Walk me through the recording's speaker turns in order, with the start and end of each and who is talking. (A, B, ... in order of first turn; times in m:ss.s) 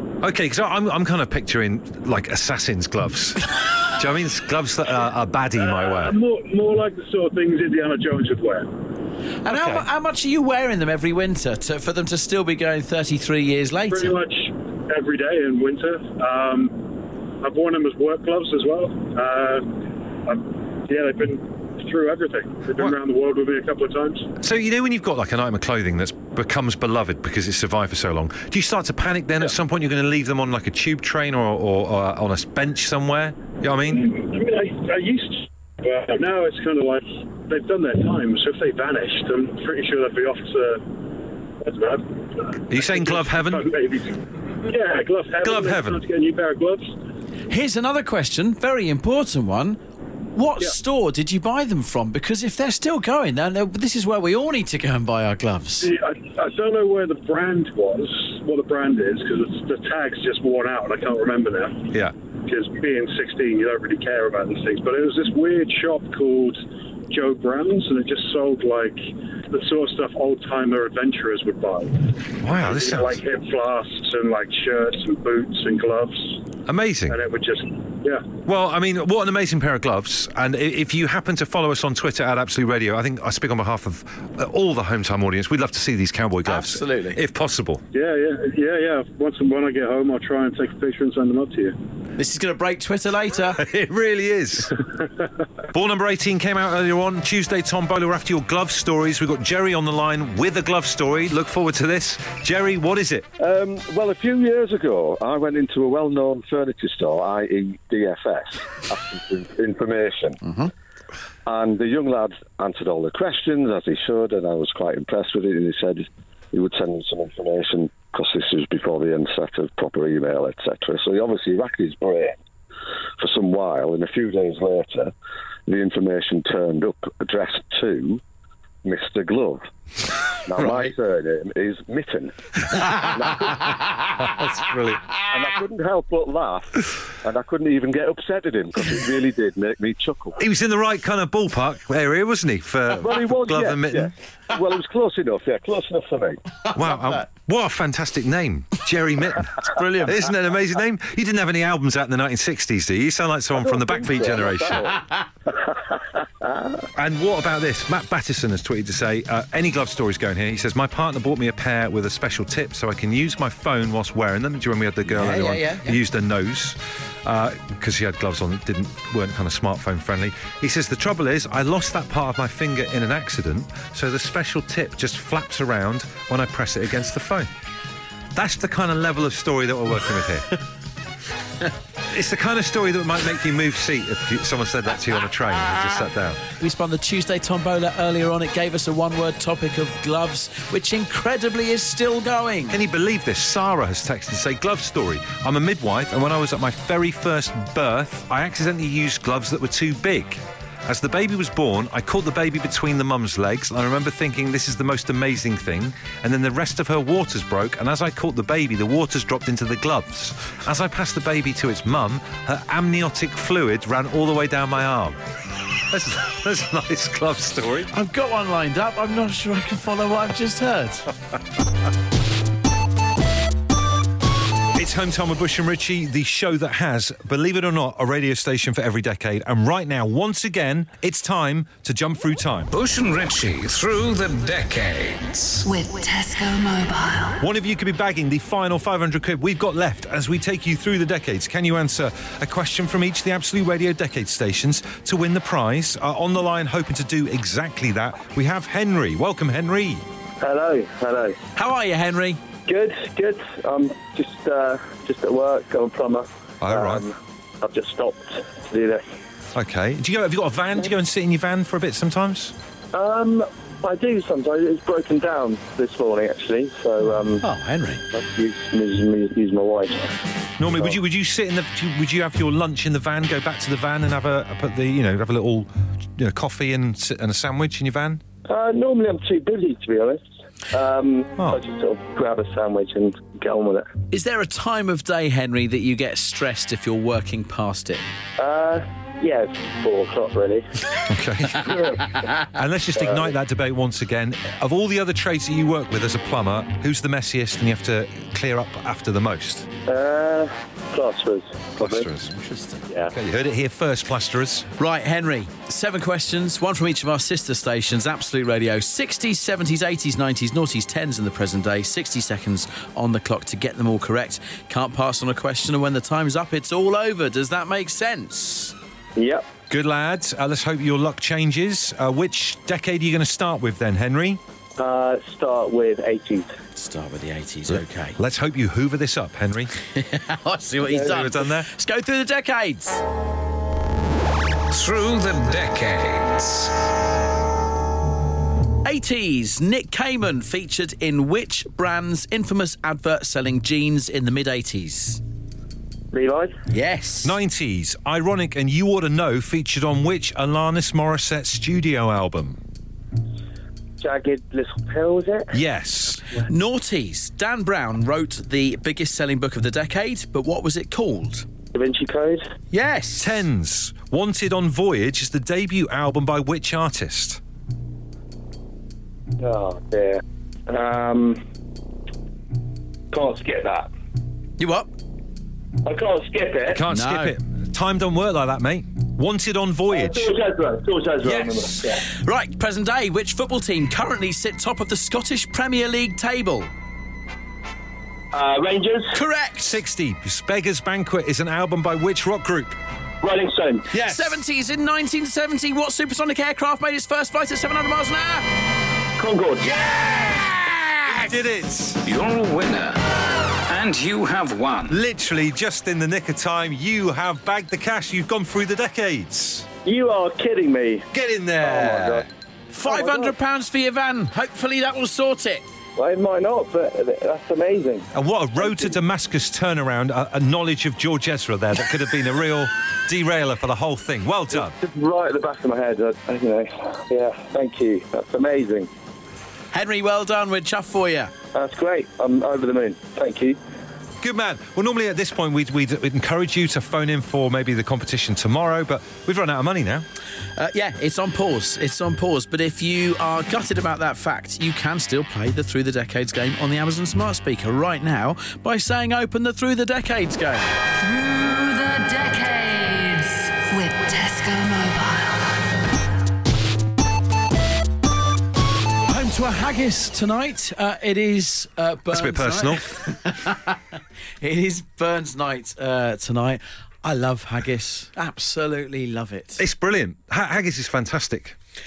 0:00.2-0:06.2 A
0:05.8-0:08.7 B
0:09.4-0:14.2 C
0:09.5-0:09.8 A
0:13.9-0:16.8 B
0:17.4-0:24.3 B
0:24.4-0:34.2 A
0:34.1-0:40.8 B
0:41.6-0:46.9 B
0:42.7-0:43.7 A
0:45.4-0:46.0 A
0:47.5-0:49.8 C
0:50.3-0:55.9 C
0:55.8-1:06.6 B
1:07.1-1:16.4 B
1:12.4-1:13.2 A
1:16.6-1:17.2 A
1:17.1-1:18.2 B
1:18.4-1:27.8 A
1:26.4-1:27.2 C
1:27.9-1:31.7 B
1:32.2-1:33.6 C
1:33.6-1:34.8 A
1:35.7-1:43.3 A
1:43.4-1:50.4 D
1:51.4-2:02.4 D
2:03.2-2:05.1 D
2:05.7-2:08.2 D
2:08.8-2:09.6 D
2:10.4-2:12.3 D
2:10.6-2:10.9 C
2:13.0-2:13.6 D
2:14.3-2:15.0 A
2:15.3-2:20.4 D
2:20.4-2:24.1 A
2:22.9-2:26.4 D
2:26.7-2:35.0 A
2:34.1-2:34.9 D
2:36.9-2:57.5 A
2:45.1-2:46.0 C
2:58.3-3:00.6 A
3:02.1-3:06.4 A
3:06.6-3:12.8 C
3:12.7-3:37.9 A
3:37.9-3:41.1 C
3:44.7-3:52.7 A
3:52.7-3:55.7 E
3:55.6-3:57.4 F
3:57.4-4:10.0 A
4:10.4-4:11.4 G
4:11.6-4:12.4 C
4:12.7-4:19.0 G
4:16.6-4:17.1 A
4:19.5-4:22.5 A
4:22.9-4:27.4 G
4:27.4-4:28.0 C
4:28.1-4:30.2 G
4:30.6-4:38.2 A
4:38.4-4:43.9 G
4:44.1-4:48.0 C
4:48.4-4:50.7 G
4:51.1-4:59.7 A
4:59.8-5:02.0 G
5:01.8-5:02.3 A
5:02.2-5:02.8 C
5:03.1-5:04.7 A
5:04.8-5:18.7 C
5:19.2-5:19.5 G
5:19.7-5:24.4 A
5:24.8-5:26.5 G
5:26.7-5:28.2 C
5:27.7-5:29.7 A
5:29.9-5:33.0 C
5:30.9-5:31.7 A
5:34.7-5:36.7 E
5:38.8-5:45.2 C
5:46.1-5:46.5 G
5:46.7-5:47.4 C
5:47.2-5:52.6 A
5:54.0-5:55.5 G
5:55.5-5:56.2 A
5:56.3-6:01.5 C
6:01.7-6:02.5 G
6:02.7-6:03.4 C
6:03.2-6:07.4 A
6:09.4-6:11.4 G
6:13.1-6:13.9 G
6:14.6-6:14.9 C
6:15.8-6:16.8 G
6:16.7-6:20.3 A
6:16.9-6:17.4 C
6:19.9-6:22.0 G
6:21.2-6:21.8 A
6:22.1-6:26.7 C
6:28.3-6:29.2 G
6:29.1-6:29.8 C
6:29.6-6:32.8 A
6:33.2-6:33.9 G
6:33.9-6:38.5 C
6:39.2-6:39.8 G
6:39.8-6:40.7 C
6:41.0-6:42.0 A
6:42.0-6:43.0 E
6:43.7-6:45.0 E
6:44.9-6:49.7 A
6:49.8-6:51.1 G
6:51.1-6:52.3 A
6:51.6-6:52.2 G
6:52.7-6:55.6 C
6:52.8-6:53.3 G
6:56.0-6:58.1 G
6:58.1-7:04.7 A
7:04.5-7:08.9 G
7:09.7-7:11.3 C
7:11.5-7:13.6 G
7:14.2-7:20.0 A
7:20.6-7:30.8 C
7:31.0-7:35.4 F
7:39.0-7:49.6 C
7:42.1-7:42.8 A
7:49.6-7:51.6 A